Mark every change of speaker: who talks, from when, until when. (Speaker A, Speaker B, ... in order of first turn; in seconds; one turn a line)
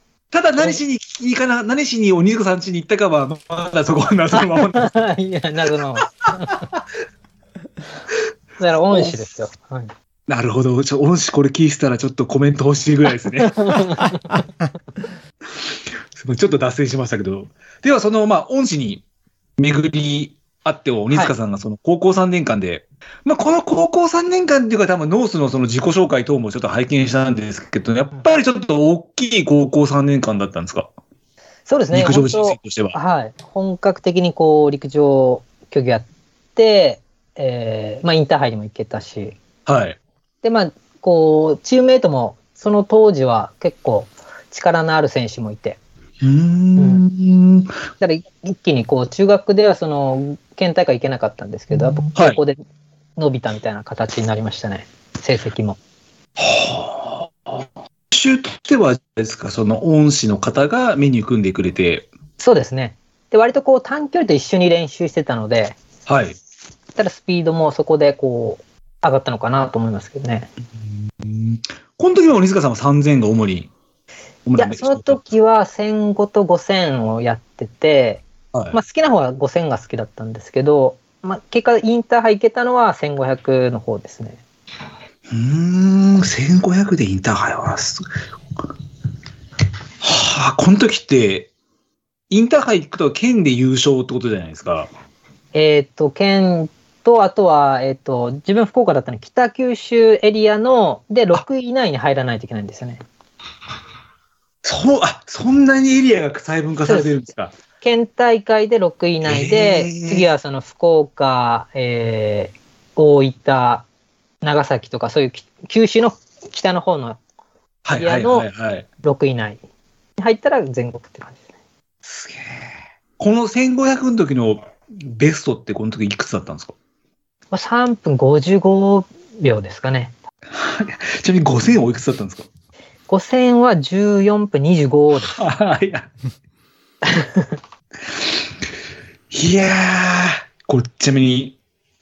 Speaker A: 0.3-4.9
Speaker B: 4.3-6.7
Speaker A: 6.4-6.8
Speaker B: 8.6-9.9
Speaker A: 10.3-13.9
Speaker B: 13.4-14.5
Speaker A: 15.6-19.0
Speaker A: 19.6-30.9
Speaker B: 31.7-39.4
Speaker A: 31.9-33.0
Speaker A: 39.7-40.0
Speaker B: 40.4-45.8
Speaker A: 46.2-47.8
Speaker B: 46.8-47.0
Speaker B: 48.0-52.6
Speaker A: 52.1-52.4
Speaker B: 53.2-55.8
Speaker A: 56.4-62.1
Speaker B: 62.4-65.8
Speaker A: 66.1-66.4
Speaker B: 67.0-70.5
Speaker A: 70.9-73.7
Speaker A: 74.5-75.2
Speaker B: 74.6-84.4
Speaker A: 78.5-78.8
Speaker A: 85.3-88.1
Speaker A: 90.0-91.5
Speaker A: 92.3-94.9
Speaker B: 95.5-103.0
Speaker A: 104.6-107.5
Speaker B: 106.9-107.2
Speaker B: 107.8-113.9
Speaker A: 109.2-110.3
Speaker B: 114.4-117.2
Speaker A: 117.8-118.9
Speaker B: 118.0-118.5
Speaker B: 119.0-119.6
Speaker B: 120.2-121.4
Speaker A: 122.0-126.7
Speaker B: 127.5-130.1
Speaker A: 130.5-132.5
Speaker B: 133.1-135.4
Speaker A: 135.3-136.1
Speaker B: 137.1-137.6
Speaker A: 138.1-138.5
Speaker A: 139.3-141.6